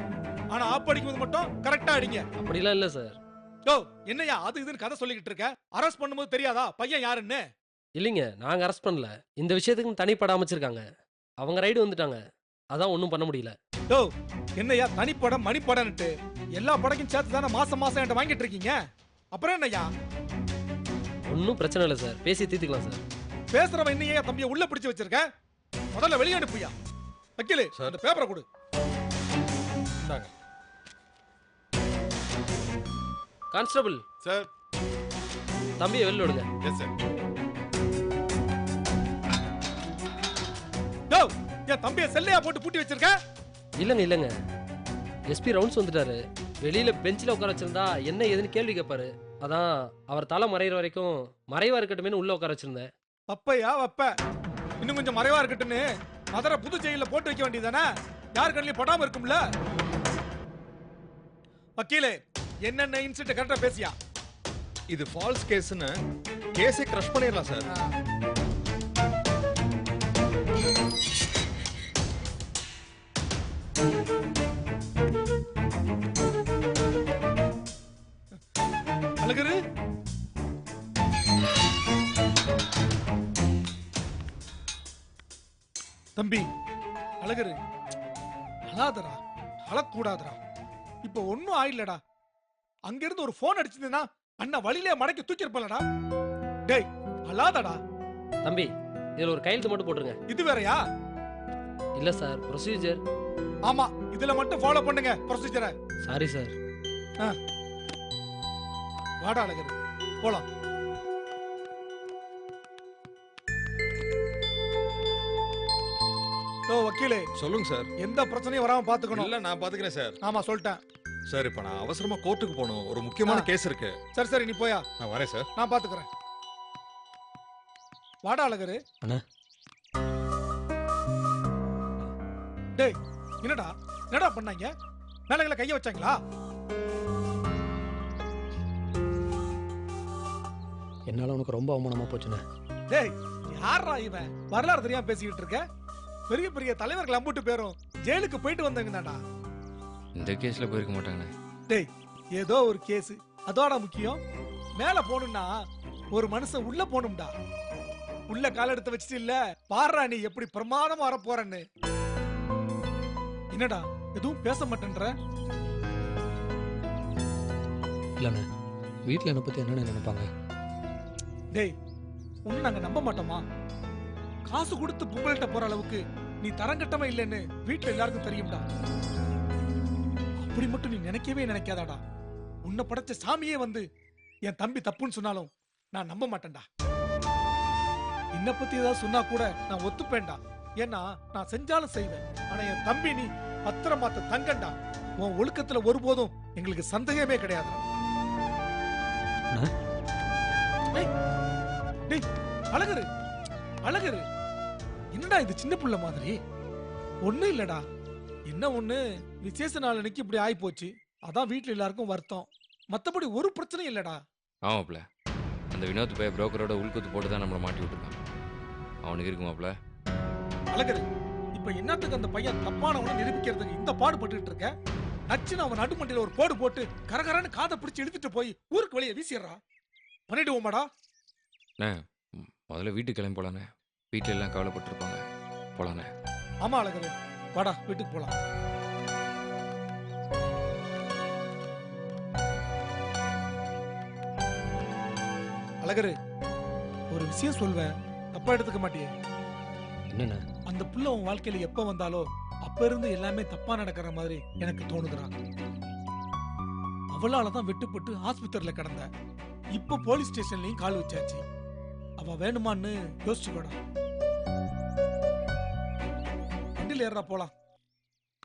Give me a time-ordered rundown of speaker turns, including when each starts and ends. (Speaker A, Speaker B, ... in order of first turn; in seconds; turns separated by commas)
Speaker A: 0.5-2.3, Speaker B: 2.4-3.2, Speaker A: 3.7-7.5, Speaker B: 8.0-10.9, Speaker B: 11.4-12.2, Speaker B: 12.7-13.6, Speaker A: 13.9-18.8, Speaker A: 19.3-19.9, Speaker B: 21.3-23.0, Speaker A: 23.5-25.3, Speaker A: 26.0-26.7, Speaker A: 27.4-28.4, Speaker C: 30.0-30.3, Speaker B: 33.5-34.0, Speaker C: 34.2-34.5, Speaker B: 35.8-36.5, Speaker C: 36.6-36.9, Speaker A: 41.1-43.2, Speaker B: 43.8-44.3, Speaker B: 45.3-52.9, Speaker A: 53.3-54.1, Speaker A: 54.8-57.9, Speaker A: 58.4-59.4, Speaker A: 61.8-64.0, Speaker C: 64.9-66.0, Speaker C: 66.5-67.7, Speaker A: 79.2-79.6, Speaker A: 86.2-86.5, Speaker A: 87.2-87.6, Speaker A: 88.7-90.4, Speaker A: 91.0-92.0, Speaker A: 92.9-95.8, Speaker A: 96.7-97.8, Speaker B: 98.5-100.2, Speaker A: 100.3-100.8, Speaker B: 102.0-103.0, Speaker A: 103.7-105.8, Speaker B: 106.0-106.5, Speaker A: 109.2-110.5, Speaker A: 116.7-117.2, Speaker C: 117.4-117.9, Speaker A: 118.0-119.3, Speaker C: 119.2-120.2, Speaker A: 120.2-120.8, Speaker C: 121.3-124.0, Speaker A: 124.2-124.9, Speaker C: 125.0-125.5, Speaker A: 125.6-126.1, Speaker A: 128.2-128.8, Speaker A: 132.8-134.7, Speaker A: 135.3-136.2, Speaker D: 141.1-142.4, Speaker A: 142.9-145.6, Speaker A: 146.3-149.2, Speaker E: 150.2-151.3, Speaker A: 151.7-154.2, Speaker A: 154.8-155.5, Speaker A: 156.1-157.3, Speaker A: 158.3-161.6, Speaker A: 163.5-165.2, Speaker D: 168.2-168.5, Speaker D: 169.1-170.3, Speaker A: 172.5-173.4, Speaker A: 174.5-178.6, Speaker A: 180.4-182.0, Speaker A: 182.7-183.9, Speaker A: 184.5-186.7, Speaker A: 188.4-197.8, Speaker A: 202.1-203.1, Speaker A: 203.8-204.2, Speaker A: 205.1-206.4, Speaker A: 207.2-207.8, Speaker A: 208.5-214.2, Speaker E: 214.7-215.1, Speaker E: 215.7-218.2, Speaker E: 219.0-219.8, Speaker A: 220.7-224.7, Speaker A: 225.3-229.6, Speaker A: 230.3-230.9, Speaker E: 231.8-236.1, Speaker A: 236.6-238.3, Speaker A: 245.8-246.2, Speaker A: 247.1-249.1, Speaker D: 250.1-250.4, Speaker A: 250.7-255.3, Speaker A: 257.1-259.1, Speaker A: 259.8-261.4, Speaker A: 262.2-263.8, Speaker A: 266.8-267.5